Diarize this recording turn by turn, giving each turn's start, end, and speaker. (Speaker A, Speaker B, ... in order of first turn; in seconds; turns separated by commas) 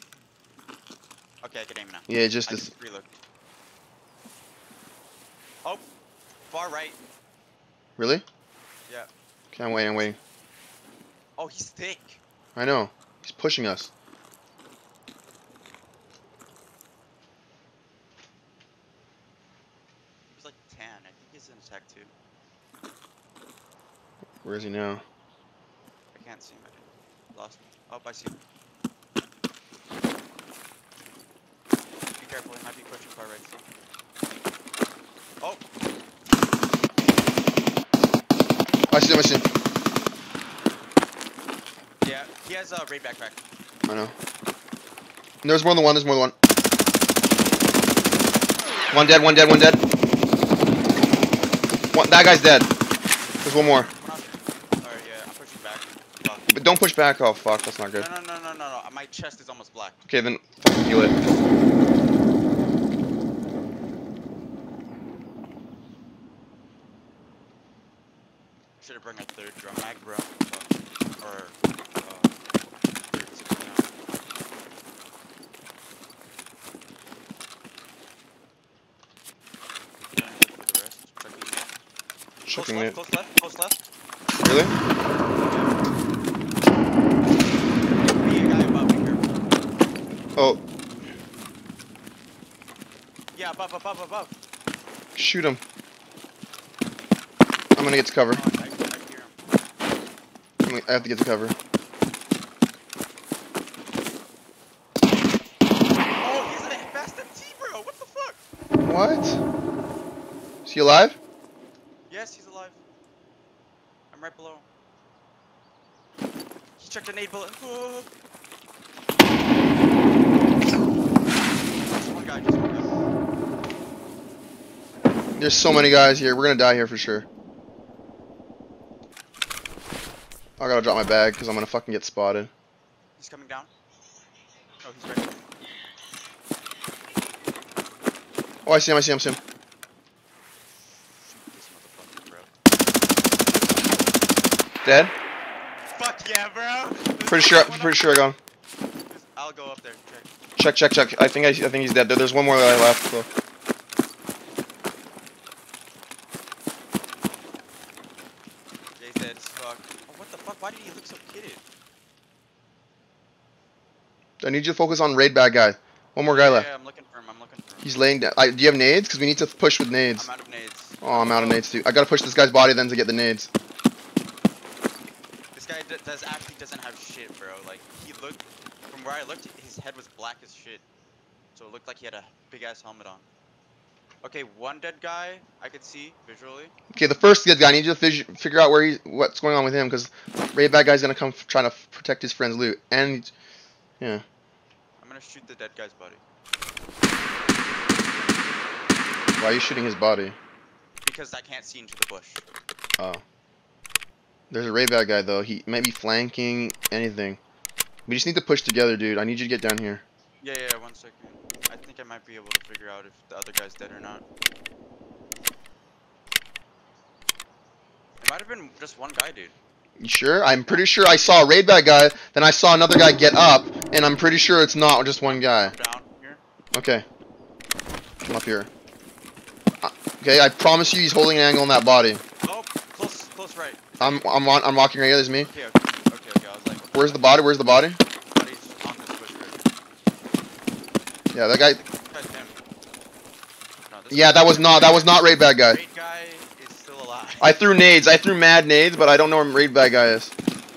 Speaker A: 1.4-3.2, Speaker B: 2.1-2.7, Speaker A: 6.5-7.0, Speaker B: 8.0-8.2, Speaker B: 9.5-10.2, Speaker A: 9.8-10.1, Speaker A: 11.4-12.2, Speaker B: 12.6-13.9, Speaker A: 20.3-22.1, Speaker B: 24.4-25.0, Speaker A: 26.1-28.4, Speaker A: 32.2-33.6, Speaker B: 38.9-39.5, Speaker A: 42.0-43.4, Speaker B: 43.9-44.1, Speaker B: 45.4-46.3, Speaker B: 48.9-49.8, Speaker B: 51.9-52.7, Speaker B: 53.4-53.9, Speaker A: 53.5-56.5, Speaker B: 56.5-58.1, Speaker A: 58.0-60.0, Speaker B: 60.1-61.1, Speaker A: 68.8-72.4, Speaker A: 73.0-73.9, Speaker A: 80.1-81.7, Speaker B: 82.5-83.0, Speaker A: 82.5-83.8, Speaker B: 84.4-84.8, Speaker A: 85.4-85.8, Speaker A: 88.1-89.4, Speaker A: 93.3-94.3, Speaker B: 95.2-95.6, Speaker B: 97.8-98.4, Speaker A: 98.3-99.4, Speaker B: 100.6-101.5, Speaker A: 100.9-101.2, Speaker A: 106.2-108.4, Speaker B: 108.8-109.4, Speaker B: 110.7-111.2, Speaker A: 112.1-112.8, Speaker A: 114.1-114.7, Speaker A: 116.8-118.1, Speaker A: 121.9-122.9, Speaker B: 125.4-127.3, Speaker B: 130.6-132.5, Speaker A: 133.2-133.7, Speaker A: 134.8-135.4, Speaker B: 138.7-139.4, Speaker A: 141.2-142.5, Speaker B: 144.8-145.1, Speaker A: 145.9-148.3, Speaker B: 147.3-148.4, Speaker A: 149.1-150.3, Speaker B: 150.6-153.3, Speaker A: 159.0-161.6, Speaker B: 164.4-166.7, Speaker A: 166.2-168.1, Speaker B: 167.8-170.3, Speaker A: 170.2-171.7, Speaker B: 171.0-173.5, Speaker A: 175.6-180.8, Speaker A: 181.6-183.2, Speaker A: 184.2-186.7, Speaker B: 186.9-193.3, Speaker A: 195.0-196.2, Speaker B: 199.4-200.4, Speaker A: 201.0-202.4, Speaker B: 204.5-207.4, Speaker B: 208.1-210.0, Speaker A: 210.4-214.2, Speaker A: 218.2-219.6, Speaker B: 220.0-225.7, Speaker A: 220.6-221.0, Speaker A: 225.2-226.4, Speaker B: 226.7-227.1, Speaker B: 228.2-228.7, Speaker B: 229.8-232.2, Speaker A: 232.4-234.3, Speaker B: 234.0-235.5, Speaker A: 235.4-237.4, Speaker B: 236.9-238.0, Speaker A: 238.3-239.6, Speaker B: 241.3-241.8, Speaker A: 241.6-242.6, Speaker A: 243.9-247.6, Speaker B: 244.1-245.8, Speaker B: 247.4-250.3